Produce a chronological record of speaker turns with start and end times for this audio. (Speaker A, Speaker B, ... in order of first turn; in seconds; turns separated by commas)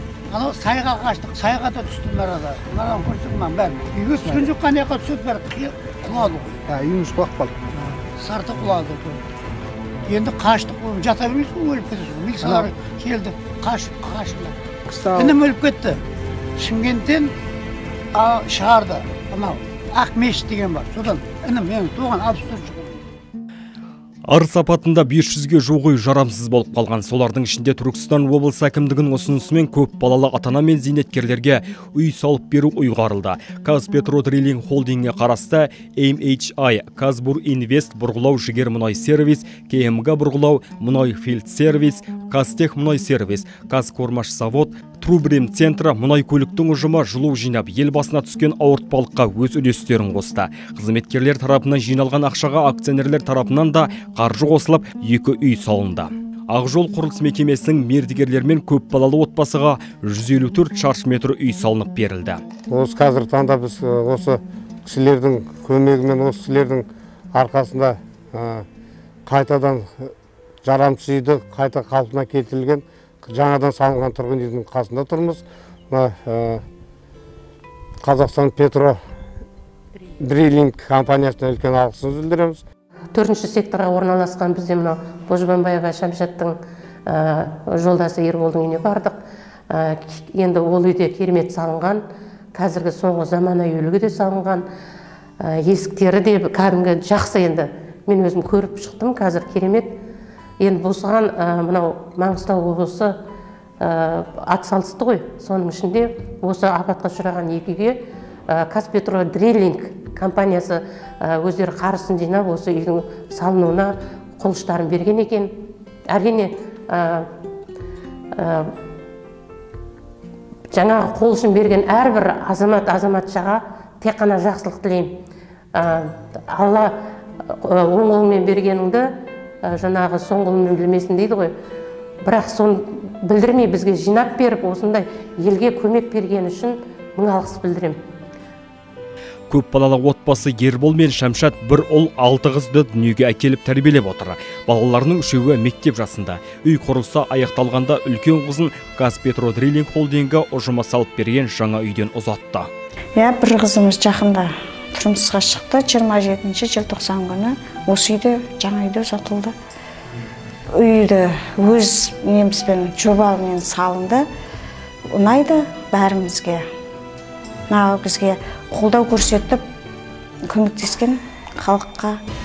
Speaker A: 0.3-6.7, Speaker B: 6.9-7.5, Speaker A: 7.8-9.2, Speaker A: 10.1-14.6, Speaker A: 15.1-16.0, Speaker A: 16.6-17.3, Speaker A: 18.1-23.0, Speaker C: 24.3-62.4, Speaker B: 62.7-68.7, Speaker B: 69.2-76.6, Speaker B: 78.0-79.0, Speaker B: 80.2-82.6, Speaker D: 83.2-86.6, Speaker D: 87.1-89.2, Speaker D: 89.7-92.0, Speaker D: 92.5-94.7, Speaker D: 95.4-99.9, Speaker D: 100.6-103.2, Speaker D: 103.8-115.5, Speaker D: 116.1-117.3, Speaker D: 118.4-118.7, Speaker D: 120.7-125.1, Speaker D: 125.8-126.9, Speaker D: 127.5-129.1, Speaker D: 129.6-131.5, Speaker D: 132.2-138.0, Speaker C: 139.5-152.7, Speaker E: 153.2-159.5, Speaker E: 160.8-164.3, Speaker E: 165.2-166.6, Speaker E: 167.7-169.6, Speaker E: 170.5-172.2